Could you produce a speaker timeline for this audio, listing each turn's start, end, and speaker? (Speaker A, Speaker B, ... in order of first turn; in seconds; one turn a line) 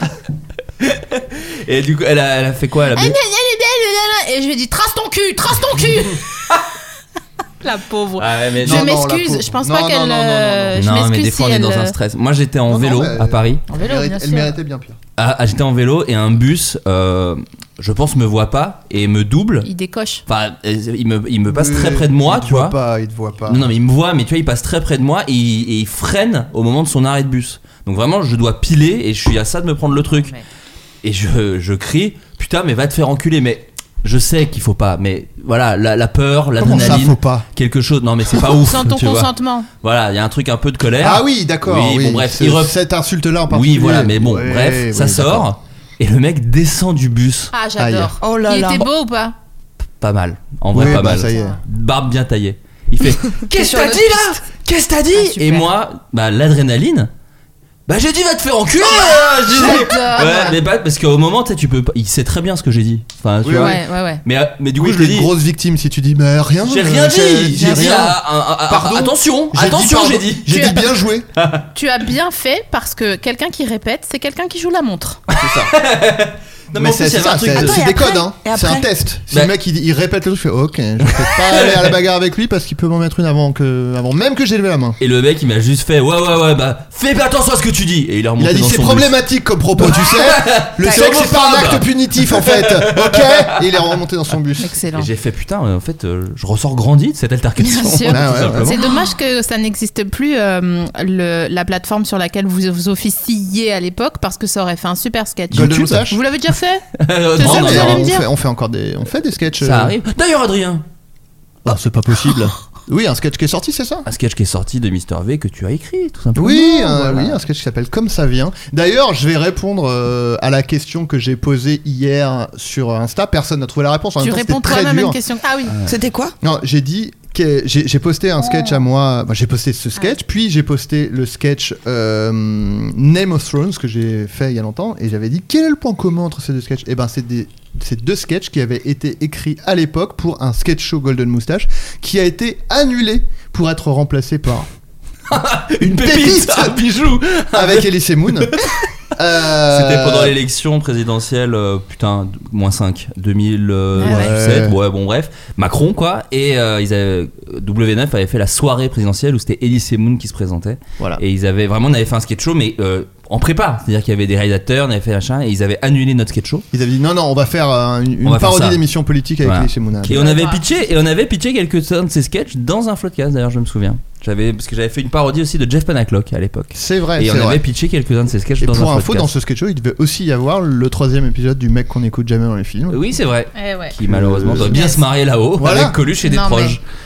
Speaker A: 0.8-3.2
Speaker B: 2.9-6.2
Speaker B: 7.6-11.9
Speaker A: 8.2-8.9
Speaker C: 8.6-10.8
Speaker A: 10.8-13.6
Speaker C: 12.7-15.0
Speaker B: 13.7-14.5
Speaker A: 15.2-19.7
Speaker B: 19.6-20.2
Speaker A: 20.3-22.8
Speaker C: 21.5-23.7
Speaker A: 23.5-30.3
Speaker B: 29.9-30.4
Speaker A: 31.0-42.8
Speaker C: 36.6-37.4
Speaker B: 38.6-39.7
Speaker C: 41.0-45.5
Speaker A: 43.5-47.5
Speaker B: 47.5-49.3
Speaker C: 47.8-48.1
Speaker D: 48.2-48.9
Speaker A: 50.0-57.1
Speaker C: 50.7-51.6
Speaker B: 51.3-51.6
Speaker D: 53.5-54.4
Speaker B: 55.2-55.6
Speaker A: 57.9-65.3
Speaker B: 58.8-60.6
Speaker C: 63.4-63.8
Speaker B: 63.5-64.2
Speaker C: 64.8-71.3
Speaker A: 66.6-70.8
Speaker A: 71.4-71.6
Speaker B: 71.7-75.2
Speaker A: 75.3-77.8
Speaker C: 75.4-75.7
Speaker C: 76.7-85.0
Speaker D: 77.5-78.9
Speaker A: 81.0-81.9
Speaker A: 85.0-89.2
Speaker C: 88.4-94.7
Speaker A: 89.8-93.8
Speaker B: 94.6-95.1
Speaker A: 94.9-98.9
Speaker B: 97.6-106.8
Speaker C: 98.1-98.8
Speaker C: 105.5-106.2
Speaker A: 105.5-106.0
Speaker A: 107.0-108.1
Speaker B: 107.3-108.3
Speaker C: 107.4-109.9
Speaker A: 109.6-110.8
Speaker C: 111.6-114.0
Speaker A: 114.0-117.4
Speaker C: 116.3-125.2
Speaker B: 124.2-125.8
Speaker D: 125.8-126.3
Speaker C: 126.4-144.7
Speaker A: 145.3-148.9
Speaker C: 145.8-146.8
Speaker C: 147.5-148.5
Speaker C: 149.2-150.3
Speaker A: 149.5-166.7
Speaker B: 154.0-154.3
Speaker C: 154.0-154.8
Speaker C: 166.7-170.3
Speaker A: 168.2-168.8
Speaker A: 169.4-179.3
Speaker B: 170.1-170.7
Speaker C: 176.7-177.6
Speaker C: 178.6-183.0
Speaker A: 182.9-186.8
Speaker B: 183.6-183.9
Speaker C: 184.1-184.8
Speaker B: 184.7-185.0
Speaker C: 185.6-186.0
Speaker B: 186.2-186.8